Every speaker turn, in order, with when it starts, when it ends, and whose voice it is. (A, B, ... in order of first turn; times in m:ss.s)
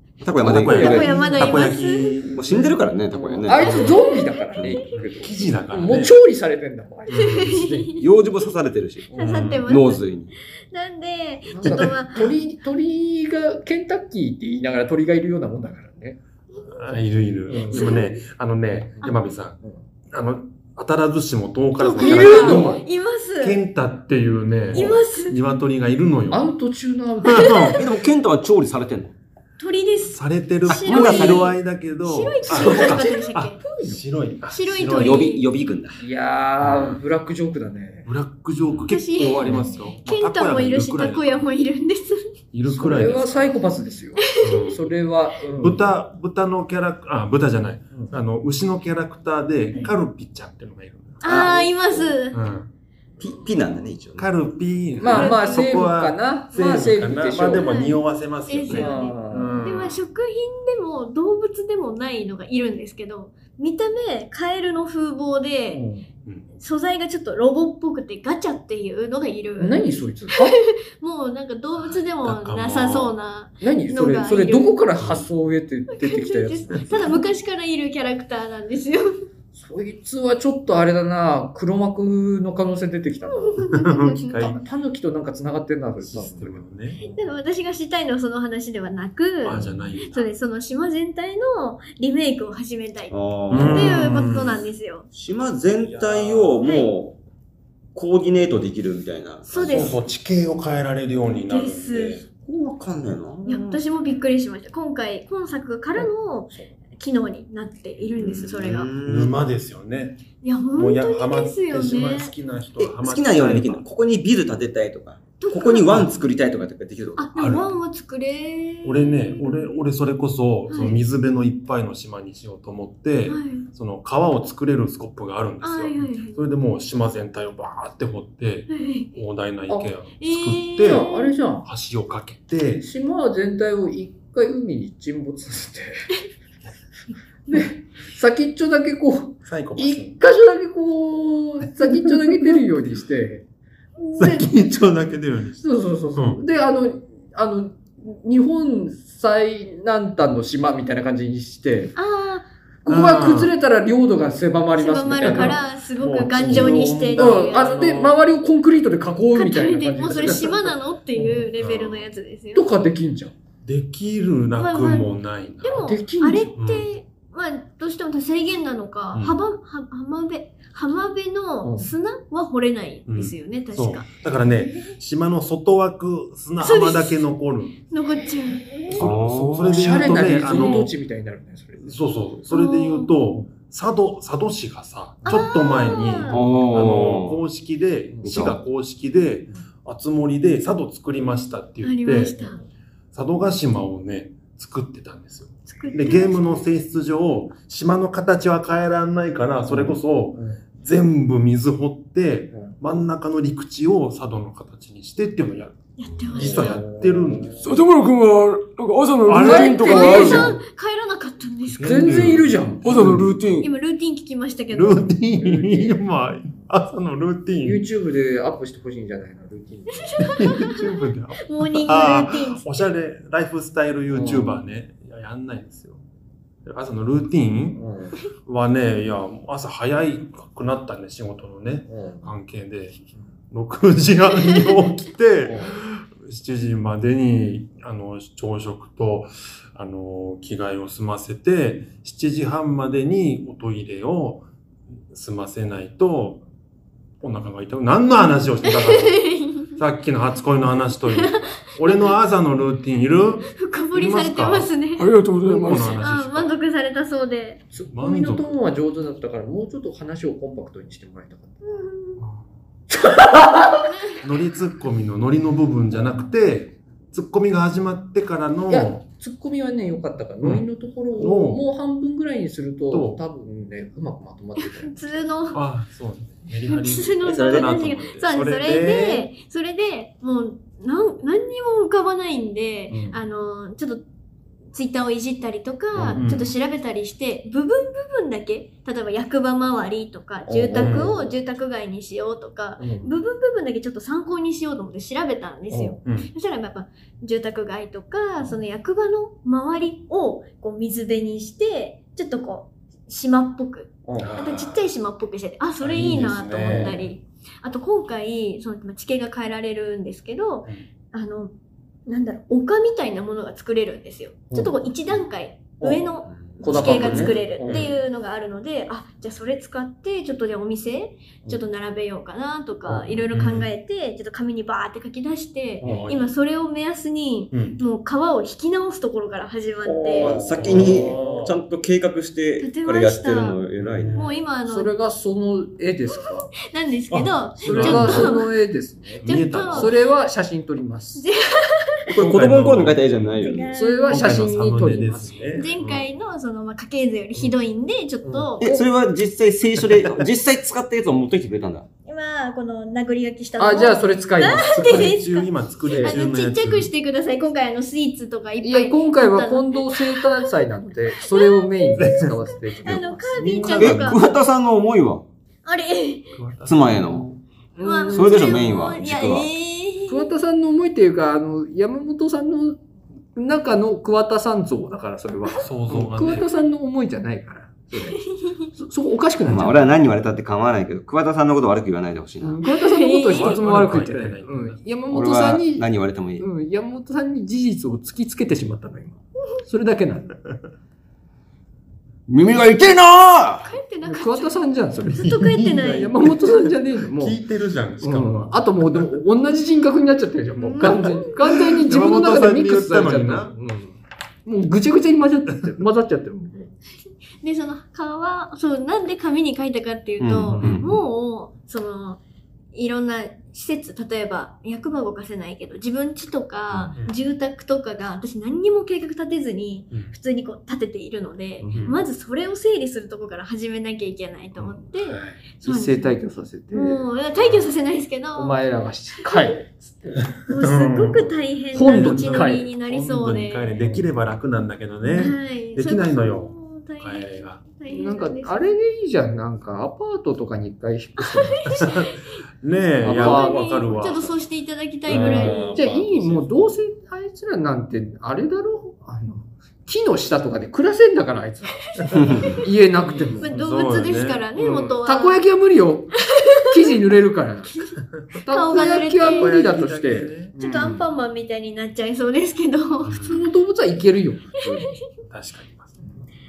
0:00.2-0:01.7 A
0:00.4-0:02.8 B
0:00.7-0:02.2 C
0:00.7-0:01.6 D
0:02.3-0:04.0 A
0:02.5-0:07.9 D
0:03.5-0:04.9 C
0:03.7-0:03.9 B
0:04.6-0:04.8 A
0:04.9-0:06.2 B
0:07.1-0:07.7 B
0:07.1-0:08.0 C
0:08.0-0:10.3 A
0:09.1-0:10.0 C
0:09.1-0:09.4 D
0:09.2-0:09.7 B
0:10.7-0:12.3 C
0:11.5-0:16.2 D
0:11.6-0:11.9 B
0:16.7-0:22.8 B
0:17.5-0:18.0 D
0:17.7-0:18.0 C
0:21.8-0:23.6 C
0:22.0-0:22.8 D
0:23.4-0:26.4 B
0:24.7-0:25.0 D
0:24.7-0:25.4 C
0:26.3-0:27.8 D
0:27.2-0:27.8 B
0:27.3-0:27.8 C
0:27.8-0:29.1 A
0:29.6-0:33.6 C
0:30.1-0:35.3 B
0:30.7-0:31.5 A
0:32.4-0:34.0 D
0:34.5-0:35.4 C
0:34.9-0:36.0 A
0:36.0-0:38.1 D
0:36.6-0:37.0 B
0:38.0-0:41.4 B
0:38.9-0:42.2 C
0:39.2-0:39.8 D
0:42.5-0:43.5 B
0:42.6-0:45.8 D
0:44.4-0:44.7 C
0:44.4-0:44.8 B
0:45.6-0:51.2 B
0:51.2-0:52.4 C
0:51.2-0:52.2 A
0:52.3-0:52.7 B
0:53.2-0:54.3 A
0:54.2-1:00.0 B
0:55.0-0:57.7 D
0:55.0-0:55.7 C
0:57.5-1:05.8 C
0:58.7-0:59.5 D
1:05.7-1:06.1 D
1:06.6-1:09.8 C
1:09.6-1:10.5 D
1:10.4-1:14.8 C
1:12.2-1:13.1 B
1:12.4-1:13.0 A
1:13.6-1:17.2 D
1:15.0-1:15.3 B
1:15.9-1:19.1 C
1:16.7-1:17.2 B
1:19.5-1:23.6 D
1:23.4-1:24.5 C
1:23.7-1:24.6 B
1:24.3-1:27.2 D
1:26.0-1:27.0 B
1:27.0-1:35.1 C
1:29.4-1:30.2 B
1:33.1-1:34.3 A
1:33.5-1:34.6 B
1:35.1-1:37.2 A
1:35.8-1:36.7 B
1:36.6-1:36.9 C
1:37.9-1:40.0 A
1:39.5-1:40.0 C
1:39.6-1:42.2 B
1:41.5-1:42.2 C
1:42.3-1:43.8 A
1:43.4-1:48.9 C
1:46.0-1:46.7 D
1:48.0-1:49.4 A
1:49.0-1:50.2 B
1:50.4-1:52.3 C
1:50.7-1:53.8 B
1:52.8-1:57.3 A
1:55.4-1:56.1 C
1:57.2-1:59.7 C
1:57.4-1:57.7 B
1:58.8-2:11.1 B
2:00.7-2:01.0 C
2:03.3-2:03.6 C
2:05.6-2:06.4 C
2:08.7-2:09.1 C
2:10.2-2:11.3 C
2:10.8-2:11.6 D
2:11.6-2:12.8 B
2:12.8-2:16.1 D
2:17.5-2:23.4 D
2:19.4-2:20.2 B
2:22.1-2:22.5 B
2:24.1-2:24.5 D
2:24.2-2:25.6 B
2:25.6-2:31.9 D
2:26.1-2:26.4 B
2:32.0-2:32.5 C
2:32.8-2:35.6 D
2:32.9-2:33.5 B
2:34.8-2:37.9 C
2:35.2-2:38.2 B
2:36.4-2:41.4 D
2:39.3-2:42.7 C
2:41.6-2:42.1 B
2:42.5-2:43.3 D
2:43.6-2:45.9 B
2:44.6-2:45.1 C
2:45.6-2:54.1 C
2:45.8-2:46.5 D
2:46.6-2:46.9 B
2:51.6-2:51.9 D
2:53.1-2:57.8 B
2:56.6-2:57.2 C
2:57.9-2:59.0 C
2:58.9-3:00.9 B
2:58.9-3:00.1 A
2:59.6-3:01.9 D
3:01.8-3:12.5 B
3:02.5-3:03.1 C
3:05.2-3:06.4 C
3:06.2-3:07.4 A
3:08.2-3:08.6 A
3:11.8-3:12.6 C
3:13.1-3:25.8 B
3:15.7-3:16.6 C
3:19.7-3:20.6 D
3:26.0-3:26.8 C
3:26.3-3:27.6 B
3:26.3-3:27.7 D
3:27.6-3:30.6 E
3:29.2-3:30.5 B
3:29.4-3:30.6 D
3:29.6-3:32.4 C
3:31.7-3:33.4 B
3:31.8-3:33.2 D
3:32.8-3:33.7 E
3:33.6-3:35.1 C
3:34.7-3:37.8 B
3:35.3-3:36.0 D
3:37.6-3:40.3 D
3:40.0-3:42.8 C
3:40.2-3:46.0 B
3:44.1-3:44.6 D
3:46.6-3:47.8 B
3:47.7-3:48.2 D
3:48.4-4:04.4 B
3:51.9-3:52.3 D
3:55.4-3:55.8 D
4:05.1-4:06.4 B
4:07.2-4:14.7 B
4:08.7-4:09.7 C
4:11.1-4:11.6 C
4:13.5-4:15.1 C
4:15.0-4:16.0 E
4:15.4-4:16.6 B
4:15.8-4:17.6 C
4:17.7-4:21.6 D
4:17.9-4:18.6 B
4:21.7-4:22.2 C
4:22.9-4:23.9 D
4:24.2-4:29.0 B
4:28.7-4:35.3 D
4:31.2-4:31.6 B
4:32.9-4:33.2 B
4:34.8-4:35.6 C
4:35.5-4:39.3 B
4:36.7-4:44.0 C
4:37.2-4:37.8 A
4:42.9-4:43.2 D
4:44.7-5:11.5 C
4:45.9-4:46.3 D
4:46.1-4:46.5 B
4:50.5-4:51.2 D
4:50.7-4:51.2 B
4:52.8-4:53.1 D
4:55.7-4:56.0 D
4:56.0-4:56.3 B
5:04.0-5:04.4 D
5:04.2-5:04.8 B
5:05.8-5:07.0 B
5:06.6-5:06.9 D
5:12.1-5:30.4 C
5:15.8-5:17.9 D
5:16.3-5:17.0 A
5:16.7-5:17.9 B
5:22.9-5:23.2 D
5:23.3-5:23.7 B
5:25.8-5:26.1 D
5:25.8-5:26.3 B
5:27.5-5:27.8 B
5:29.9-5:34.2 A
5:30.1-5:31.5 D
5:30.5-5:31.5 B
5:32.6-5:33.6 C
5:33.8-5:34.4 B
5:34.2-5:34.9 C
5:34.6-5:36.5 D
5:36.6-5:38.5 C
5:37.1-5:38.4 B
5:37.6-5:41.2 D
5:39.2-5:39.9 B
5:39.2-5:39.9 C
5:41.2-5:42.0 C
5:42.1-5:43.7 A
5:42.2-5:43.3 B
5:43.4-5:44.4 C
5:43.7-5:45.4 D
5:44.1-5:46.0 B
5:45.5-5:48.7 C
5:48.2-5:48.8 D
5:48.6-5:51.9 A
5:52.0-6:00.2 C
5:53.6-5:55.2 D
5:54.7-5:56.9 B
5:55.9-5:56.2 D
5:58.6-6:03.4 D
6:01.3-6:04.2 C
6:02.0-6:02.3 B
6:02.9-6:04.2 B
6:03.8-6:05.2 A
6:05.6-6:06.3 C
6:06.4-6:07.4 B
6:06.6-6:07.3 A
6:07.8-6:08.7 D
6:07.8-6:10.3 C
6:08.1-6:09.5 A
6:10.1-6:12.8 D
6:13.3-6:18.2 D
6:15.6-6:16.4 B
6:18.7-6:19.9 D
6:19.5-6:22.6 A
6:22.4-6:25.9 D
6:22.6-6:23.6 C
6:23.3-6:24.8 B
6:25.1-6:26.4 A
6:26.4-6:30.4 D
6:32.3-6:33.7 E
6:33.6-6:34.6 C
6:34.0-6:37.4 D
6:35.2-6:36.1 C
6:35.2-6:39.0 B
6:38.0-6:46.7 D
6:40.6-6:41.4 C
6:40.8-6:43.5 B
6:47.4-6:52.2 C
6:50.2-6:50.9 A
6:50.6-6:50.9 D
6:52.7-7:06.1 C
7:01.6-7:01.9 D
7:05.0-7:05.4 B
7:05.6-7:07.6 D
7:06.7-7:08.6 C
7:08.3-7:10.3 D
7:10.4-7:17.6 B
7:10.5-7:13.8 C
7:11.7-7:12.7 D
7:13.8-7:14.1 D
7:15.1-7:18.7 C
7:17.9-7:21.7 D
7:21.4-7:22.2 C
7:21.6-7:24.4 B
7:23.0-7:23.6 D
7:23.1-7:25.8 C
7:25.1-7:26.7 B
7:25.1-7:33.5 D
7:32.0-7:32.5 B
7:32.2-7:32.6 A
7:32.3-7:32.6 C
7:33.0-7:34.4 B
7:33.4-7:35.4 C
7:34.6-7:37.7 D
7:36.3-7:36.7 C
7:38.2-7:40.5 B
7:38.4-7:41.0 D
7:38.5-7:39.6 C
7:40.6-7:43.4 C
7:43.0-7:43.4 B
7:43.2-7:44.9 D
7:45.3-7:46.0 B